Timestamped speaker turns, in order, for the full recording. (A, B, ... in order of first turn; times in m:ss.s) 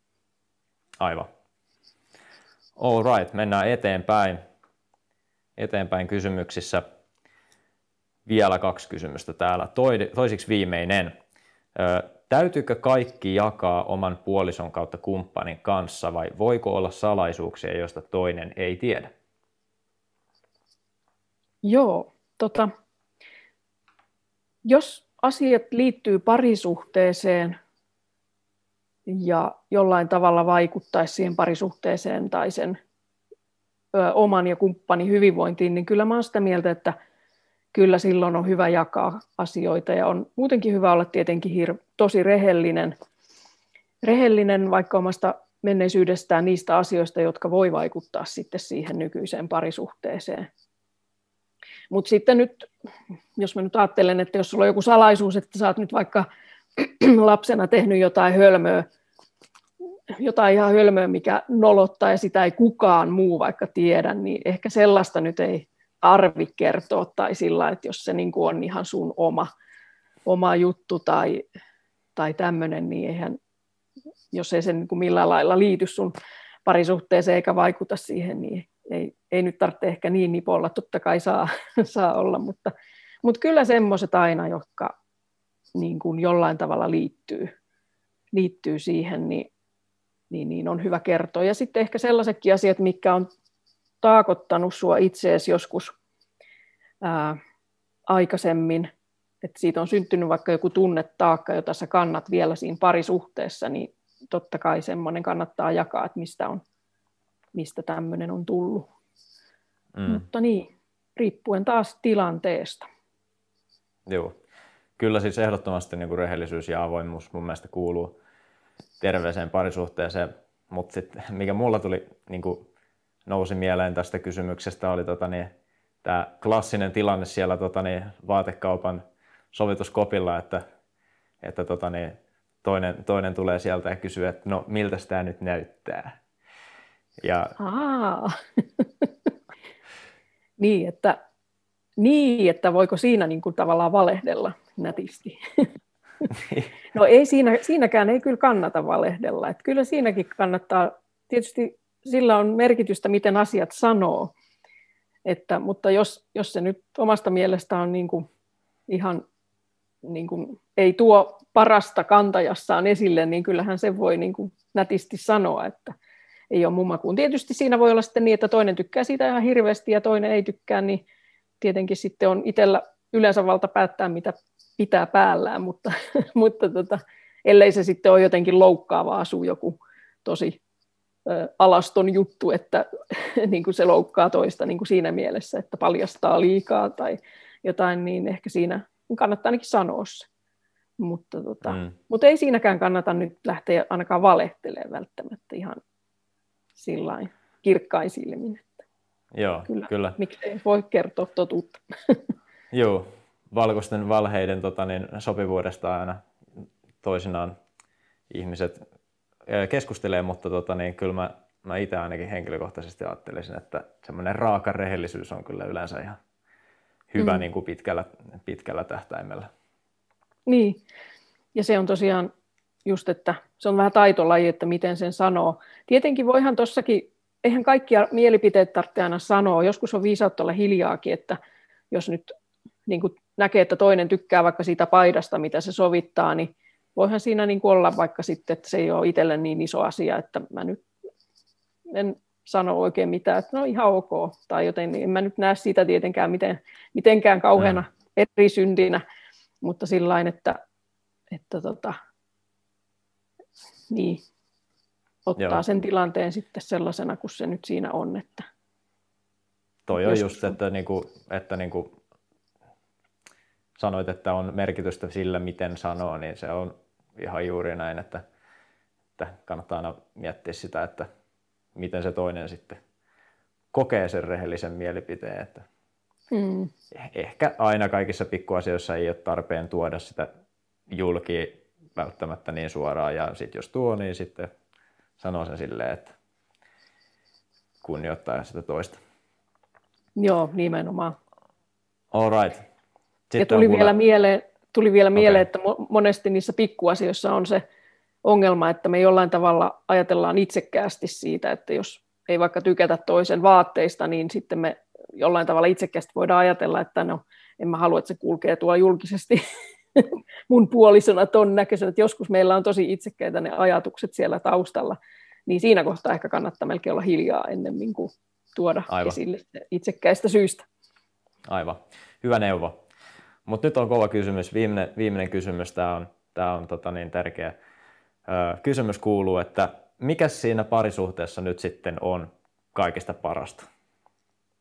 0:01.0-0:01.3 A
0:02.8-0:04.4 A
0:05.6-0:06.8 A
0:08.3-0:11.1 A
0:11.8-0:19.1 A
0:21.6-0:22.7 B
0:24.6-0:27.6 B
0:29.1-0:32.8 B
0:33.9-0:37.0 B
0:37.7-0:43.0 B
0:44.0-0:50.5 B
0:51.9-0:52.7 B
0:53.4-0:58.9 B
1:00.1-1:09.5 B
1:10.3-1:11.4 B
1:12.2-1:13.4 B
1:14.3-1:16.2 B
1:16.7-1:22.7 B
1:23.2-1:25.0 B
1:25.8-1:27.5 B
1:28.3-1:29.5 B
1:30.3-1:33.3 B
1:34.0-1:35.9 B
1:37.0-1:37.4 B
1:38.1-1:38.9 B
1:39.4-1:46.6 B
1:47.5-1:48.9 B
1:50.0-1:50.2 A
1:50.1-1:52.9 B
1:54.1-1:54.3 A
1:55.0-1:58.2 A
1:59.0-2:02.6 A
2:03.3-2:05.5 A
2:06.0-2:10.6 A
2:11.4-2:16.2 A
2:17.2-2:17.6 A
2:17.6-2:19.3 B
2:20.6-2:21.2 B
2:22.0-2:25.6 B
2:26.3-2:26.7 A
2:26.9-2:34.3 B
2:35.2-2:38.3 B
2:38.9-2:39.2 B
2:40.0-2:45.9 B
2:46.5-2:51.0 B
2:51.6-3:00.6 B
3:01.3-3:10.3 B
3:11.0-3:15.8 B
3:11.7-3:12.0 A
3:16.8-3:18.7 B
3:19.3-3:20.2 A
3:19.7-3:22.2 B
3:22.7-3:26.2 A
3:27.0-3:27.6 A
3:28.3-3:28.8 A
3:29.5-3:36.2 A
3:37.1-3:39.5 A
3:40.5-3:40.8 B
3:41.5-3:42.3 B
3:42.8-3:51.4 B
3:51.9-3:52.3 B
3:52.9-4:00.8 B
4:01.9-4:09.0 B
4:09.6-4:10.6 B
4:11.3-4:12.0 B
4:13.9-4:14.2 B
4:15.3-4:18.5 B
4:15.4-4:15.6 A
4:19.9-4:21.9 A
4:20.0-4:20.6 B
4:23.8-4:28.2 A
4:29.2-4:31.1 A
4:31.8-4:32.8 A
4:33.7-4:35.7 A
4:36.3-4:36.7 B
4:37.0-4:40.3 A
4:40.9-4:44.5 A
4:45.2-4:46.1 A
4:47.8-4:49.0 A
4:50.2-4:51.2 B
4:52.1-4:52.6 A
4:53.3-4:53.9 A
4:53.4-4:57.6 B
4:55.2-4:55.5 A
4:58.2-5:09.4 B
5:10.0-5:20.6 B
5:18.9-5:19.2 A
5:21.5-5:22.8 A
5:23.5-5:27.6 A
5:28.3-5:33.7 A